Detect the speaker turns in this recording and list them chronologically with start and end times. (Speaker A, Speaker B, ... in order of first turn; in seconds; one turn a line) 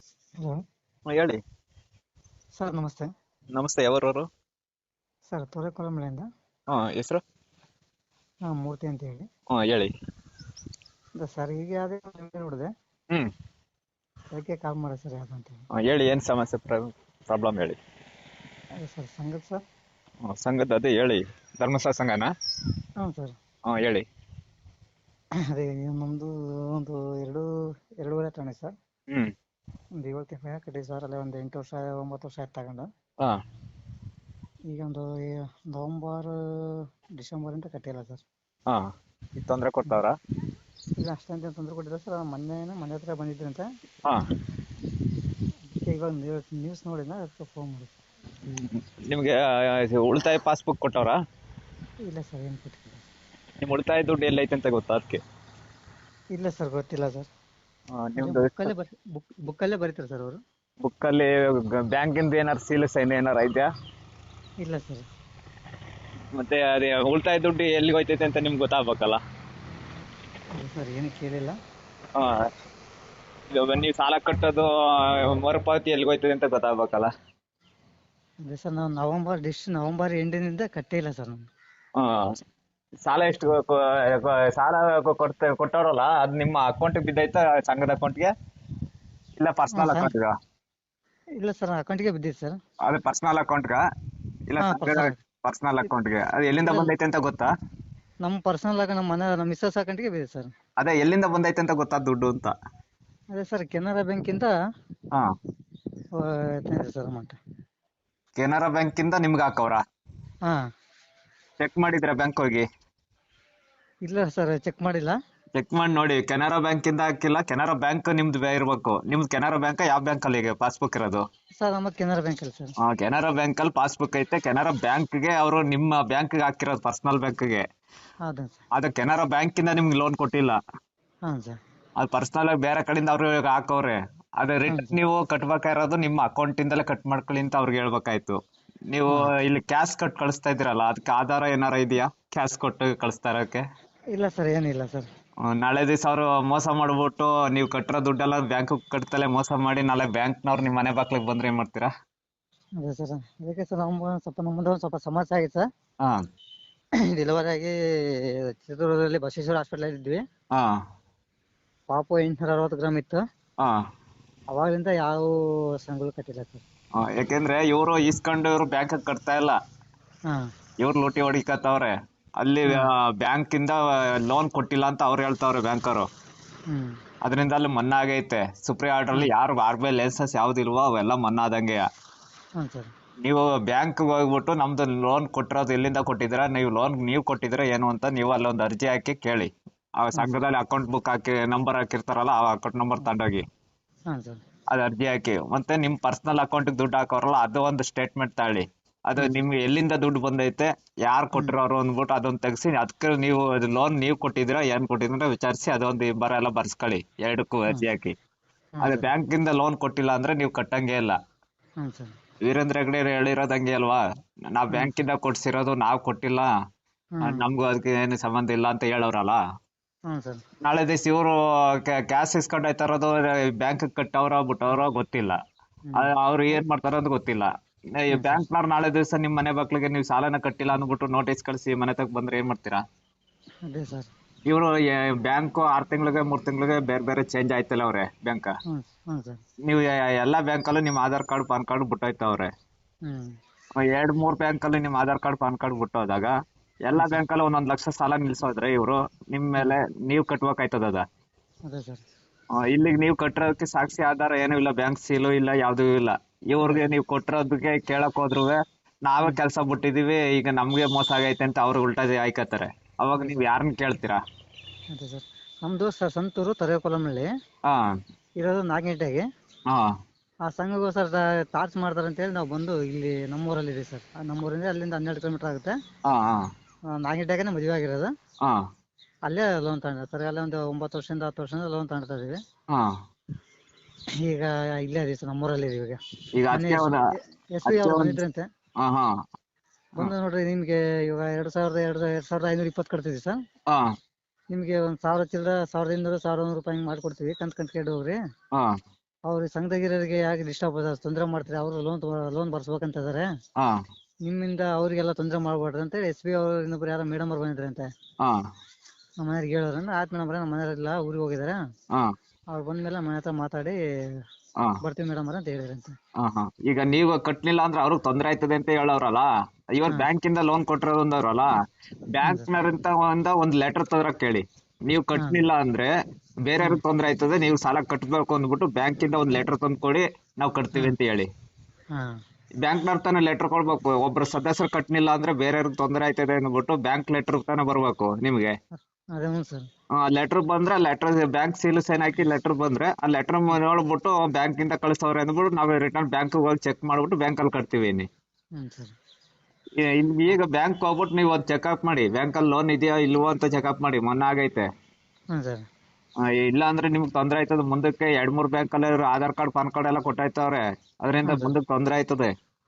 Speaker A: 1.1-1.4
Speaker B: 2.6-3.1
Speaker A: 3.5-4.3
Speaker B: 5.3-6.3
Speaker A: 6.7-7.2
Speaker B: 8.5-9.3
Speaker A: 9.5-9.9
Speaker B: 11.2-12.7
Speaker B: 14.3-15.7
Speaker A: 15.8-17.8
Speaker B: 18.8-19.6
Speaker A: 20.3-22.3
Speaker B: 23.0-23.4
Speaker A: 23.7-24.1
Speaker B: 25.5-27.5
Speaker B: 28.0-28.7
Speaker B: 30.0-32.9
Speaker B: 34.7-38.2
Speaker A: 39.4-40.1
Speaker B: 41.0-43.7
Speaker B: 45.8-47.9
Speaker A: 48.5-51.2
Speaker B: 52.1-53.1
Speaker A: 53.6-55.2
Speaker B: 56.4-57.3
Speaker A: 57.9-58.7
Speaker B: 58.2-60.4
Speaker A: 60.8-63.7
Speaker B: 64.6-65.1
Speaker A: 66.4-69.2
Speaker B: 70.5-71.6
Speaker A: 73.5-77.1
Speaker B: 78.5-81.5
Speaker A: 83.1-88.3
Speaker A: 89.4-90.3
Speaker B: 89.7-90.1
Speaker B: 91.4-92.6
Speaker A: 92.8-93.8
Speaker A: 94.5-97.5
Speaker B: 94.6-95.2
Speaker B: 96.6-96.9
Speaker B: 98.2-100.5
Speaker A: 100.8-102.5
Speaker B: 103.3-104.5
Speaker B: 106.2-107.3
Speaker A: 108.4-109.8
Speaker A: 111.6-112.7
Speaker B: 114.1-115.2
Speaker A: 115.6-121.2
Speaker B: 121.6-122.7
Speaker A: 122.8-127.6
Speaker B: 128.3-128.6
Speaker A: 128.8-130.6
Speaker B: 131.3-131.6
Speaker A: 132.0-138.4
Speaker B: 134.7-135.0
Speaker A: 138.9-143.6
Speaker B: 139.1-139.3
Speaker B: 144.2-145.1
Speaker A: 145.5-151.9
Speaker B: 152.8-155.7
Speaker B: 157.2-160.2
Speaker A: 160.5-160.8
Speaker B: 161.9-163.2
Speaker B: 164.5-166.6
Speaker A: 167.0-169.6
Speaker A: 170.8-176.1
Speaker B: 172.7-172.9
Speaker B: 176.7-176.9
Speaker A: 177.2-181.8
Speaker B: 182.6-182.9
Speaker A: 183.2-193.4
Speaker B: 194.1-194.4
Speaker A: 194.7-208.1
Speaker B: 199.2-199.4
Speaker B: 208.8-209.1
Speaker A: 208.8-211.2
Speaker B: 211.8-212.1
Speaker A: 212.5-214.0
Speaker A: 214.6-216.5
Speaker B: 217.2-217.5
Speaker A: 217.2-219.4
Speaker B: 220.1-220.4
Speaker A: 220.6-221.3
Speaker A: 221.9-225.3
Speaker B: 225.9-226.1
Speaker A: 225.9-232.8
Speaker B: 228.1-228.4
Speaker B: 233.7-234.1
Speaker A: 234.5-238.5
Speaker B: 238.7-239.4
Speaker A: 239.7-242.5
Speaker B: 243.1-243.3
Speaker A: 243.8-246.3
Speaker A: 246.9-251.0
Speaker B: 246.9-247.2
Speaker B: 251.7-252.0
Speaker A: 252.6-264.2
Speaker B: 256.6-256.9
Speaker B: 263.1-263.4
Speaker B: 264.9-267.3
Speaker B: 268.4-269.2
Speaker B: 270.5-275.7
Speaker A: 276.1-276.5
Speaker B: 276.9-278.1
Speaker B: 279.3-282.4
Speaker B: 284.2-286.0
Speaker A: 286.4-287.0
Speaker B: 286.5-288.4
Speaker A: 287.6-288.2
Speaker A: 288.8-289.1
Speaker B: 290.0-293.4
Speaker B: 294.5-298.2
Speaker B: 299.3-303.3
Speaker B: 304.2-307.9
Speaker B: 309.2-311.6
Speaker B: 312.5-314.2
Speaker B: 314.8-315.9
Speaker A: 316.2-321.5
Speaker A: 322.1-325.9
Speaker B: 325.1-325.4
Speaker A: 326.4-331.3
Speaker A: 332.6-338.6
Speaker B: 339.2-339.7
Speaker A: 340.0-348.1
Speaker B: 348.6-348.9
Speaker A: 349.8-354.7
Speaker B: 355.3-355.6
Speaker A: 356.4-362.3
Speaker B: 361.2-361.6